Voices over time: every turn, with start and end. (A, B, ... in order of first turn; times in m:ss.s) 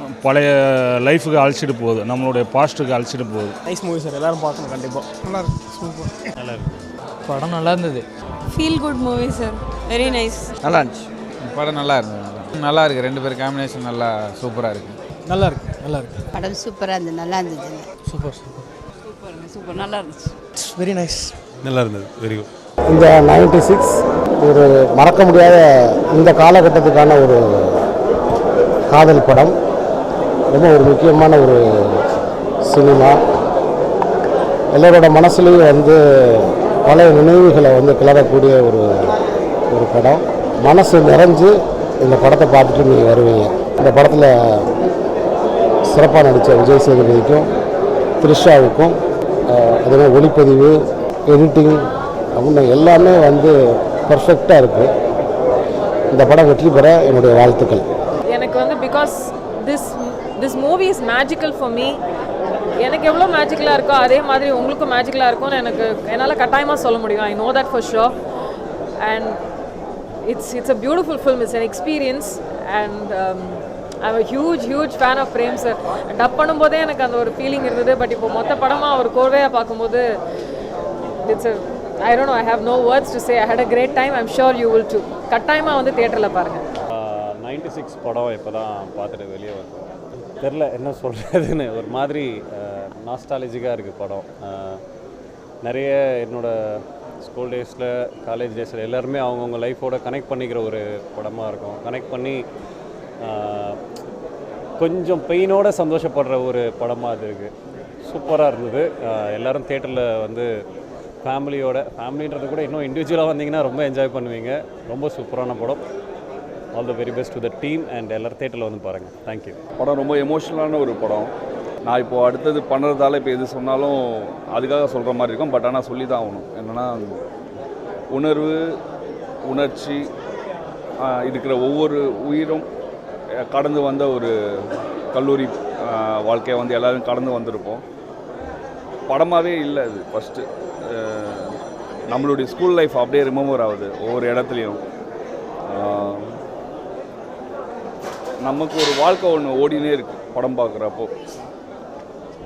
0:00.2-0:03.6 A
0:03.7-0:06.1 B
0:07.5-0:08.0 C
0:09.9-0:10.4 D
0:11.5-0:15.0 C
0:15.3-0:16.2 B
0:16.3-0:17.8 D
0:18.1-0:18.5 B
0:19.2-0:20.3 D
0:20.6-0:21.3 B
0:21.6-0:22.5 A
0:22.9-0:27.8 E
0:28.9-0:29.5 E
0:30.5-0:32.0 E
0:32.6-0:33.2 E
0:34.7-0:39.1 E
0:39.7-0:44.6 E
0:45.9-0:47.5 E
0:48.2-0:49.0 E
0:49.5-0:50.8 E
0:51.3-0:51.8 E
0:52.4-0:53.5 E
0:54.1-0:54.9 E
0:56.1-0:57.8 E
0:58.3-1:02.0 F
1:02.8-1:08.2 F
1:09.0-1:09.4 F
1:10.2-1:20.0 F
1:21.2-1:26.6 F
1:26.9-1:29.9 G
1:30.4-1:34.8 G
1:35.7-1:42.4 G
1:43.3-1:43.8 G
1:44.8-1:47.5 G
1:48.1-1:50.5 G
1:51.2-1:55.8 G
1:56.8-1:59.6 G
1:59.8-2:01.3 H
2:01.8-2:07.1 H
2:08.1-2:08.6 H
2:09.5-2:10.0 H
2:11.0-2:12.6 H
2:13.5-2:14.3 H
2:15.1-2:17.8 H
2:19.1-2:21.6 H
2:22.1-2:24.8 H
2:25.7-2:26.4 H
2:28.4-2:31.1 H